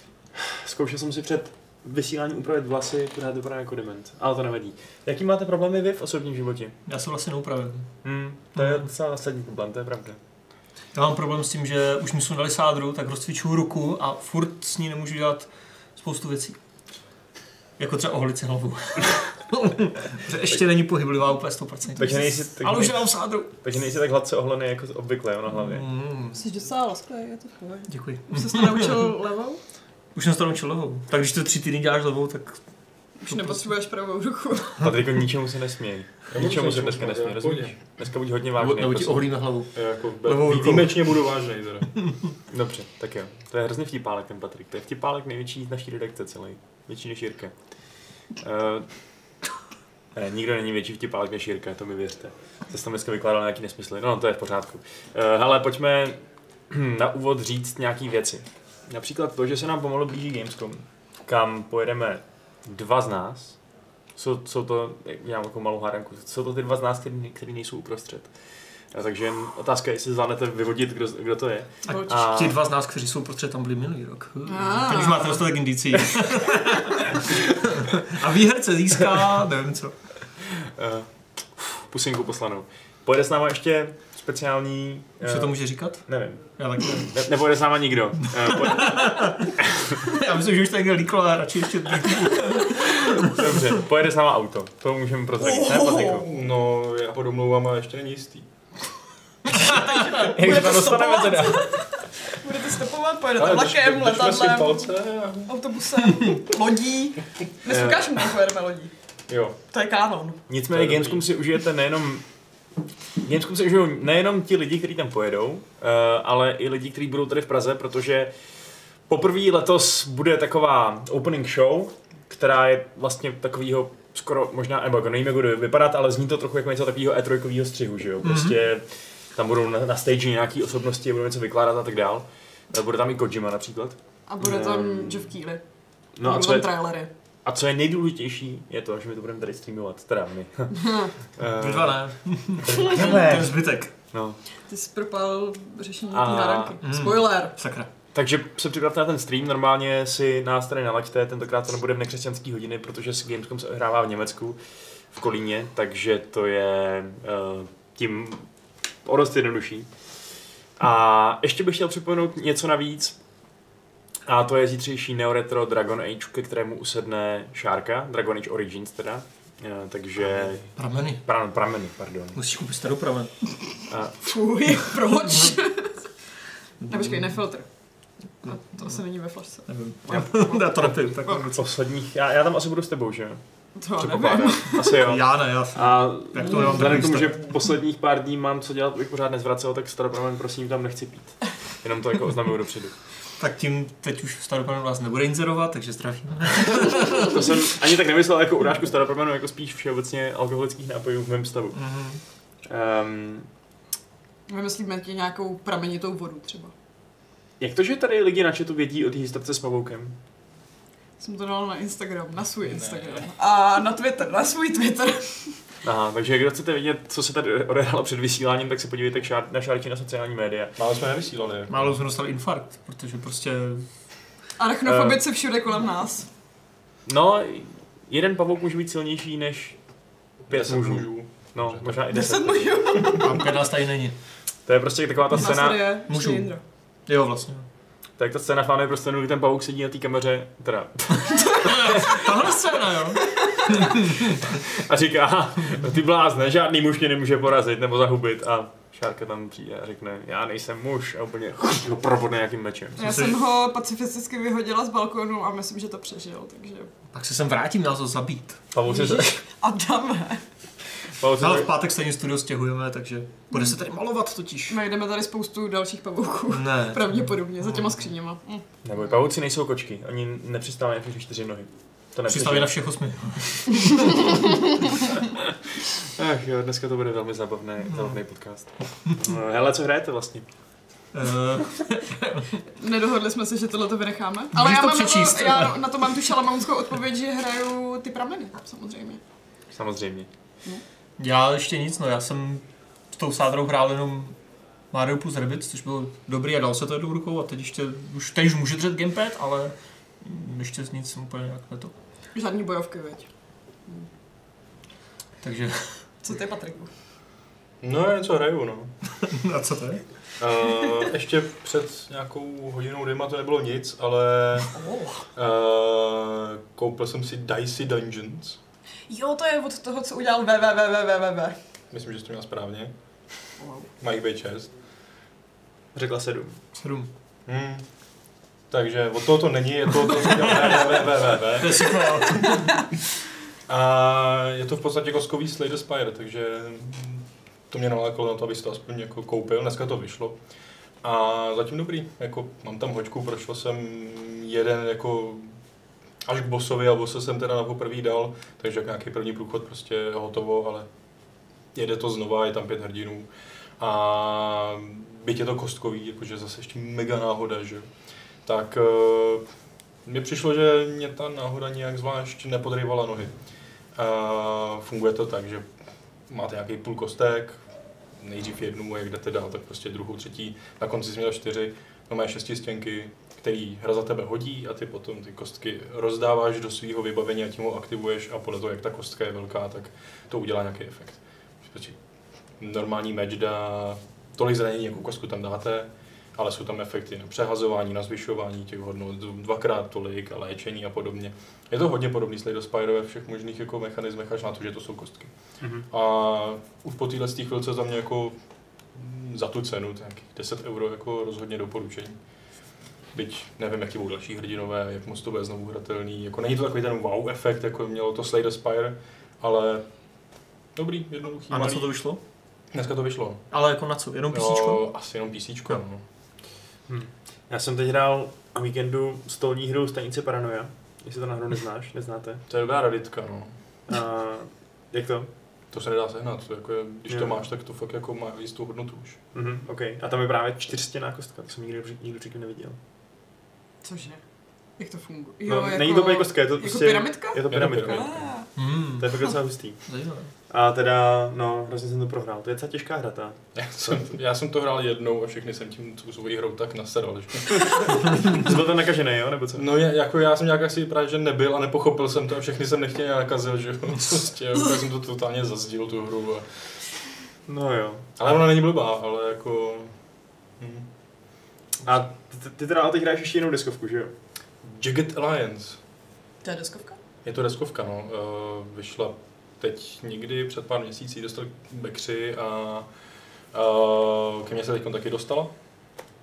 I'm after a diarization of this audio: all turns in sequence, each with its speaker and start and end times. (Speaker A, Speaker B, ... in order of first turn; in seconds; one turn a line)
Speaker A: 0.3-6.8
Speaker B: 6.9-7.9
Speaker A: 8.0-10.2
Speaker B: 8.6-8.8
Speaker B: 10.9-16.6
Speaker B: 17.8-23.5
Speaker A: 21.9-25.9
Speaker B: 25.6-26.4
Speaker C: 26.3-29.6
Speaker B: 27.9-29.1
Speaker B: 30.1-32.6
Speaker C: 33.2-34.8
Speaker B: 33.3-33.6
Speaker A: 34.8-39.3
Speaker D: 36.3-37.8
Speaker B: 38.6-41.1
Speaker D: 39.8-41.9
Speaker A: 42.5-47.5
Speaker A: 48.4-48.9
Speaker A: 50.1-63.6
Speaker A: 64.2-68.3
Speaker A: 68.9-72.6
Speaker B: 71.9-80.0
Speaker C: 74.5-75.4
Speaker A: 80.4-90.0
Speaker B: 85.2-86.0
Speaker B: 86.6-87.1
Speaker B: 88.5-93.7
Speaker A: 92.8-96.3
Speaker C: 95.4-96.3
Speaker D: 95.9-98.5
Speaker A: 99.5-101.9
Speaker C: 99.7-104.9
Speaker D: 103.4-105.5
Speaker C: 105.5-108.9
Speaker A: 107.7-108.0
Speaker D: 109.3-109.6
Speaker C: 109.7-110.4
Speaker A: 110.5-112.2
Speaker D: 110.7-111.2
Speaker A: 113.2-118.3
Speaker A: 119.1-135.3
Speaker B: 128.2-128.6
Speaker C: 134.3-135.6
Speaker A: 136.2-136.7
Speaker C: 136.2-137.1
Speaker A: 137.4-142.0
Speaker C: 140.7-141.1
Speaker B: 141.4-143.9
Speaker A: 142.6-144.4
Speaker C: 142.8-143.1
Speaker C: 144.7-147.6
Speaker A: 146.1-146.8
Speaker B: 146.8-147.9
Speaker A: 148.1-154.6
Speaker A: 155.1-158.5
Speaker A: 159.1-159.9
Speaker A: 160.8-163.2
Speaker A: 164.3-170.7
Speaker B: 170.8-171.2
Speaker A: 171.2-172.4
Speaker B: 172.3-173.3
Speaker A: 173.9-174.2
Speaker C: 174.2-176.1
Speaker B: 176.8-177.3
Speaker C: 176.9-177.7
Speaker B: 178.4-179.0
Speaker C: 178.4-181.5
Speaker B: 179.7-181.7
Speaker A: 181.5-183.4
Speaker C: 183.8-185.0
Speaker A: 184.0-192.9
Speaker B: 184.9-187.5
Speaker C: 186.5-186.9
Speaker B: 193.4-197.4
Speaker A: 196.6-201.8
Speaker B: 201.8-202.2
Speaker A: 202.7-203.5
Speaker C: 204.5-206.7
Speaker A: 207.6-210.2
Speaker C: 211.2-215.6
Speaker D: 212.7-213.3
Speaker A: 215.8-220.8
Speaker D: 220.8-222.0
Speaker B: 221.7-223.9
Speaker C: 224.6-226.3
Speaker A: 224.8-225.2
Speaker A: 227.1-229.8
Speaker D: 230.5-232.0
Speaker A: 230.5-232.8
Speaker C: 232.1-233.5
Speaker B: 233.0-234.2
Speaker A: 234.7-235.8
Speaker C: 235.3-236.6
Speaker B: 236.1-236.5
Speaker B: 237.1-237.7
Speaker A: 238.2-242.2
Speaker B: 241.6-244.3
Speaker A: 244.0-253.0
Speaker B: 253.0-253.4
Speaker C: 253.0-256.9
Speaker B: 257.1-259.2
Speaker A: 258.7-259.4
Speaker C: 258.9-260.4
Speaker A: 261.2-261.7
Speaker B: 261.4-264.8
Speaker C: 264.7-268.6
Speaker B: 266.5-267.9
Speaker A: 268.9-272.7
Speaker B: 272.3-274.6
Speaker C: 274.2-274.5
Speaker A: 276.0-280.5
Speaker B: 277.9-278.2
Speaker B: 281.1-282.5
Speaker C: 282.7-289.2
Speaker B: 284.5-285.8
Speaker A: 289.7-290.3
Speaker B: 291.2-294.4
Speaker B: 294.9-301.9
Speaker C: 302.3-303.3
Speaker B: 305.4-306.0
Speaker C: 306.2-306.9
Speaker D: 307.8-308.9
Speaker B: 309.2-310.0
Speaker D: 310.4-314.7
Speaker C: 314.8-315.2
Speaker D: 315.4-318.6
Speaker C: 319.1-321.6
Speaker D: 321.9-322.9
Speaker C: 323.6-323.9
Speaker D: 324.0-324.7
Speaker A: 325.9-326.6
Speaker B: 326.8-327.1
Speaker D: 327.5-327.9
Speaker D: 328.7-332.4
Speaker B: 331.4-332.9
Speaker D: 333.7-340.4
Speaker D: 341.0-345.5
Speaker D: 346.2-350.9
Speaker D: 351.8-353.3
Speaker D: 353.8-357.9
Speaker D: 358.5-359.4
Speaker D: 360.1-363.3
Speaker D: 363.9-365.7
Speaker D: 366.3-367.6
Speaker D: 368.2-382.0
Speaker D: 382.6-395.3
Speaker A: 395.6-395.9
Speaker D: 395.9-398.4
Speaker D: 398.9-402.2
Speaker D: 403.1-409.9
Speaker D: 410.8-411.9
Speaker B: 411.5-412.2
Speaker D: 412.7-413.4
Speaker B: 413.5-414.8
Speaker D: 414.3-416.0
Speaker A: 416.9-422.4
Speaker D: 422.5-423.6
Speaker A: 423.9-425.3
Speaker D: 425.7-429.2
Speaker A: 427.1-427.4
Speaker A: 429.3-432.8
Speaker C: 433.8-434.2
Speaker C: 434.8-438.5
Speaker A: 435.5-438.3
Speaker D: 437.5-438.2
Speaker B: 438.6-439.1
Speaker A: 438.8-439.8
Speaker B: 439.9-440.3
Speaker A: 440.5-443.4
Speaker D: 443.6-448.2
Speaker A: 448.2-449.6
Speaker D: 449.6-456.6
Speaker A: 457.5-458.1
Speaker D: 458.2-459.9
Speaker D: 460.6-460.9
Speaker A: 461.8-464.1
Speaker D: 464.6-465.8
Speaker C: 466.4-467.0
Speaker D: 467.2-472.9
Speaker D: 473.5-475.5